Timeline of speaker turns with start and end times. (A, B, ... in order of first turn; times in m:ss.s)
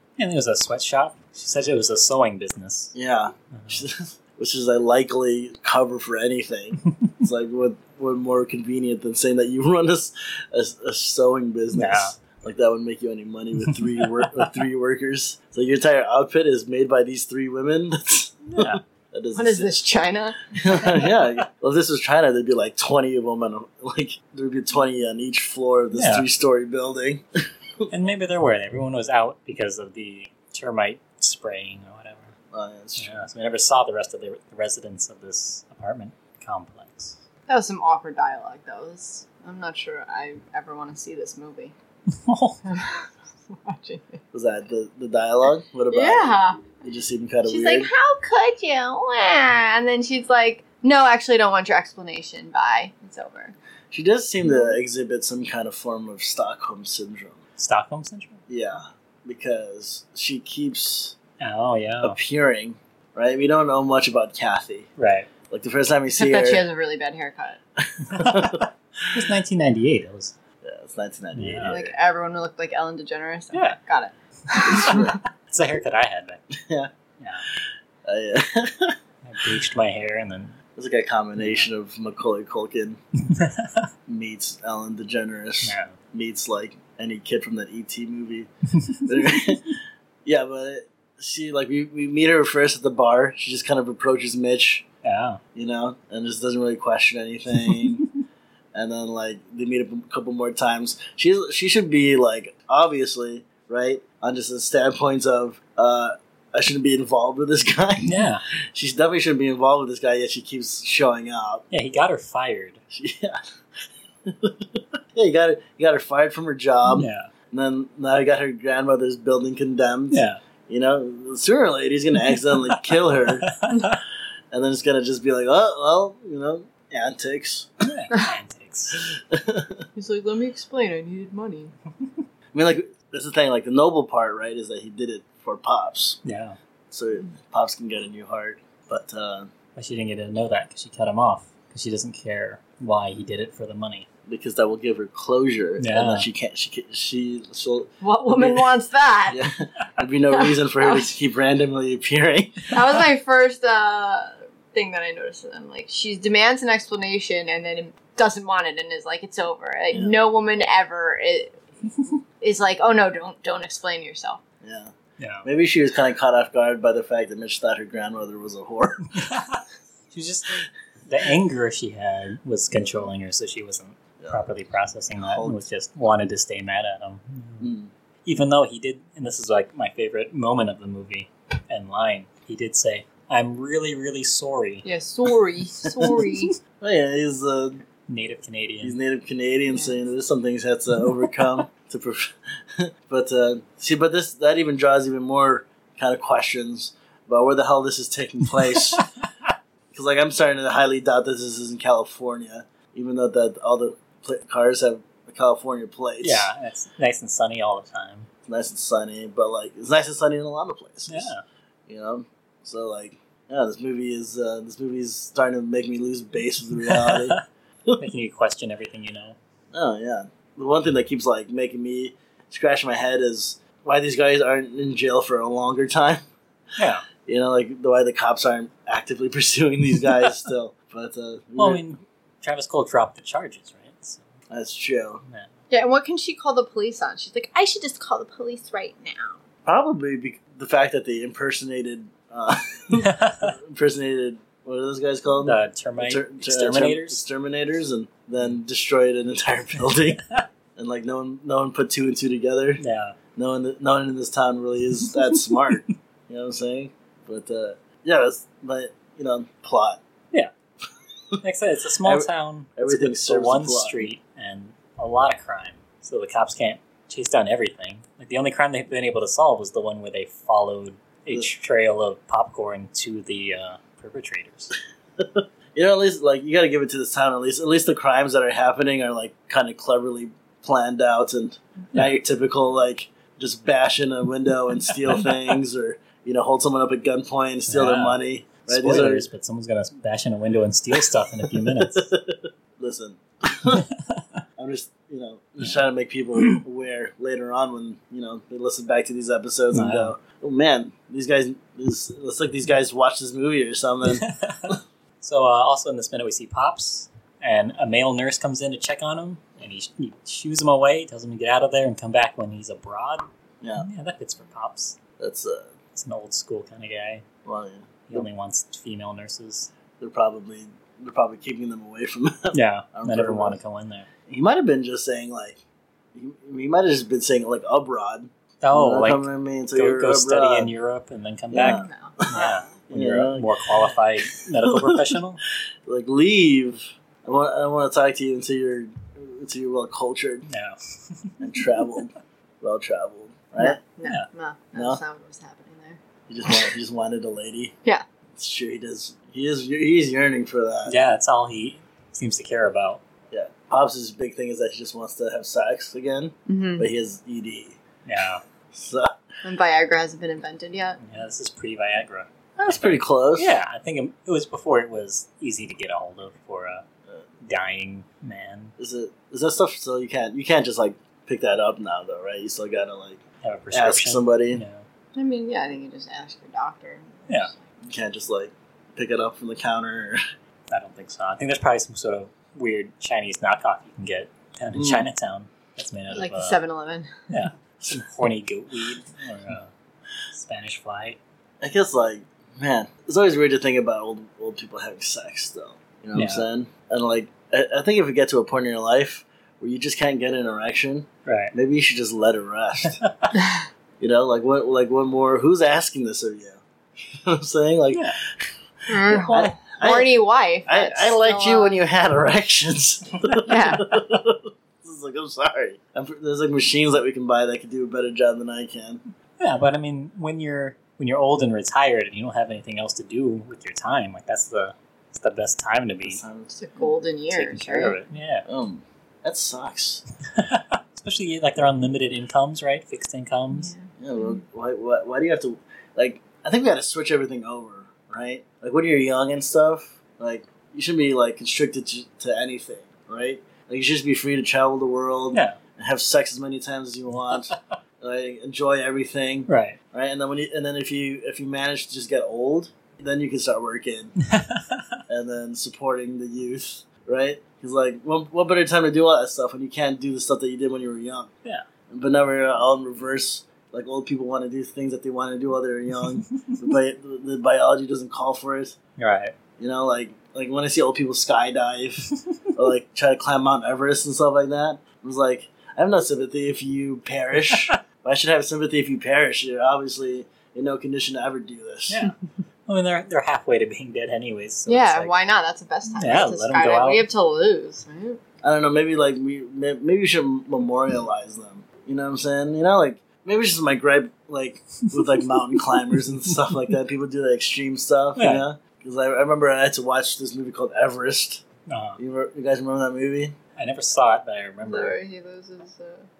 0:00.2-0:02.9 A
0:02.9-0:19.8 B
0:03.5-0:03.8 A
0:11.7-0:12.2 A
0:18.5-0:18.8 A
0:19.3-0:21.1 C
0:20.5-0:27.8 B
0:26.0-0:26.2 A
0:27.9-0:32.3 A
0:32.5-0:33.1 B
0:33.0-0:37.2 A
0:37.5-0:41.7 C
0:42.2-0:42.6 A
0:42.6-0:44.2 C
0:44.3-0:47.9 B
0:45.9-0:46.7 C
0:47.4-0:53.5 C
0:53.9-0:57.4 B
0:54.4-0:54.8 C
0:57.6-0:58.4 A
0:58.5-1:01.2 B
1:01.4-1:02.2 A
1:02.0-1:04.9 B
1:05.0-1:05.3 A
1:05.5-1:06.6 B
1:06.1-1:07.6 C
1:08.0-1:08.6 B
1:08.1-1:10.3 A
1:10.6-1:11.9 B
1:11.3-1:11.8 A
1:11.6-1:15.1 C
1:13.5-1:13.8 A
1:14.6-1:15.2 B
1:14.7-1:16.4 A
1:16.5-1:16.9 B
1:17.2-1:17.4 A
1:18.0-1:18.9 B
1:19.2-1:20.5 A
1:20.8-1:23.0 B
1:21.4-1:21.7 A
1:23.3-1:23.8 A
1:24.1-1:28.5 B
1:25.6-1:26.0 A
1:28.8-1:29.4 A
1:29.0-1:34.8 B
1:35.0-1:35.4 A
1:35.5-1:38.1 B
1:38.7-1:51.6 B
1:48.0-1:48.4 A
1:51.7-1:52.8 A
1:52.9-1:53.4 B
1:54.2-2:03.5 B
1:56.9-1:57.3 A
2:00.1-2:00.4 A
2:03.5-2:04.0 A
2:04.5-2:07.7 B
2:07.8-2:09.1 A
2:08.9-2:09.7 B
2:09.9-2:11.7 C
2:12.5-2:16.2 B
2:16.2-2:16.6 A
2:16.9-2:19.5 B
2:19.8-2:24.1 A
2:24.3-2:28.6 B
2:25.8-2:26.2 A
2:28.0-2:29.4 C
2:29.3-2:32.6 B
2:30.3-2:31.1 C
2:32.7-2:41.6 C
2:39.9-2:40.2 B
2:42.4-2:44.4 C
2:44.6-2:44.9 B
2:45.2-2:45.4 A
2:45.4-2:49.1 B
2:49.2-2:57.7 A
2:52.7-2:53.0 B
2:55.2-2:55.6 B
2:57.6-2:57.9 B
2:58.2-3:04.8 A
3:04.8-3:06.5 C
3:05.8-3:06.1 B
3:06.8-3:07.8 B
3:08.1-3:09.0 A
3:08.8-3:19.0 B
3:19.9-3:26.5 B
3:26.2-3:28.3 A
3:28.5-3:31.3 B
3:31.1-3:31.4 A
3:31.9-3:37.4 B
3:37.0-3:37.4 A
3:37.9-3:39.4 A
3:39.7-3:46.2 B
3:46.8-3:47.1 A
3:47.2-3:51.8 B
3:51.6-3:54.3 A
3:54.5-3:55.2 B
3:55.7-3:59.4 C
3:59.6-4:10.2 B
4:03.0-4:03.5 A
4:05.4-4:07.2 A
4:10.8-4:12.8 B
4:12.8-4:13.1 A
4:13.4-4:20.0 B
4:21.4-4:34.7 A
4:22.0-4:24.1 B
4:35.2-4:49.3 B
4:45.0-4:45.6 A
4:47.7-4:52.1 A
4:51.8-4:53.8 B
4:54.6-5:04.2 B
4:59.7-5:00.1 A
5:04.0-5:13.2 A
5:13.6-5:13.9 B
5:13.8-5:15.0 A
5:15.2-5:15.7 B
5:15.9-5:17.2 A
5:17.4-5:18.3 B
5:18.1-5:19.7 A
5:20.0-5:23.6 B
5:22.5-5:24.1 A
5:24.3-5:25.6 B
5:26.1-5:30.7 B
5:28.6-5:35.4 A
5:31.5-5:33.5 B
5:31.6-5:32.6 C
5:34.6-5:35.1 B
5:35.9-5:40.5 B
5:40.5-5:41.4 A
5:41.4-5:43.8 B
5:43.6-5:46.0 C
5:44.7-5:45.0 B
5:46.3-5:47.7 B
5:48.3-5:51.0 B
5:50.9-5:53.0 A
5:53.3-5:57.8 B
5:56.5-5:56.9 C
5:58.0-5:58.4 A
5:58.7-5:59.1 B
5:59.4-6:01.0 C
6:01.0-6:06.8 A
6:02.6-6:03.5 B
6:07.4-6:08.7 A
6:08.8-6:13.2 B
6:13.4-6:14.8 A
6:13.7-6:14.6 B
6:15.1-6:17.6 C
6:17.8-6:20.2 B
6:20.7-6:26.6 A
6:24.7-6:25.1 B
6:26.1-6:27.1 C
6:27.3-6:29.7 A
6:30.3-6:31.2 A
6:31.6-6:43.0 B
6:36.1-6:36.4 A
6:41.2-6:41.5 A
6:43.0-6:43.3 A
6:44.0-6:48.1 B
6:48.9-6:51.9 C
6:49.0-6:59.0 B
6:53.4-6:53.9 C
6:59.4-7:06.2 A
7:06.0-7:06.9 B
7:06.5-7:08.0 C
7:07.3-7:08.4 A
7:08.4-7:10.0 B
7:10.3-7:13.7 A
7:13.5-7:14.4 C
7:14.0-7:34.2 B
7:29.5-7:29.8 A
7:34.3-7:34.8 A
7:35.1-7:41.3 B
7:41.9-7:48.8 B
7:49.0-7:49.3 A
7:49.6-8:02.0 B
8:01.9-8:02.1 A
8:02.7-8:05.1 A
8:04.7-8:08.2 C
8:05.9-8:07.0 A
8:08.4-8:21.4 B
8:18.2-8:18.4 A
8:21.7-8:22.0 A
8:22.0-8:23.3 B
8:23.6-8:25.0 A
8:24.6-8:26.1 C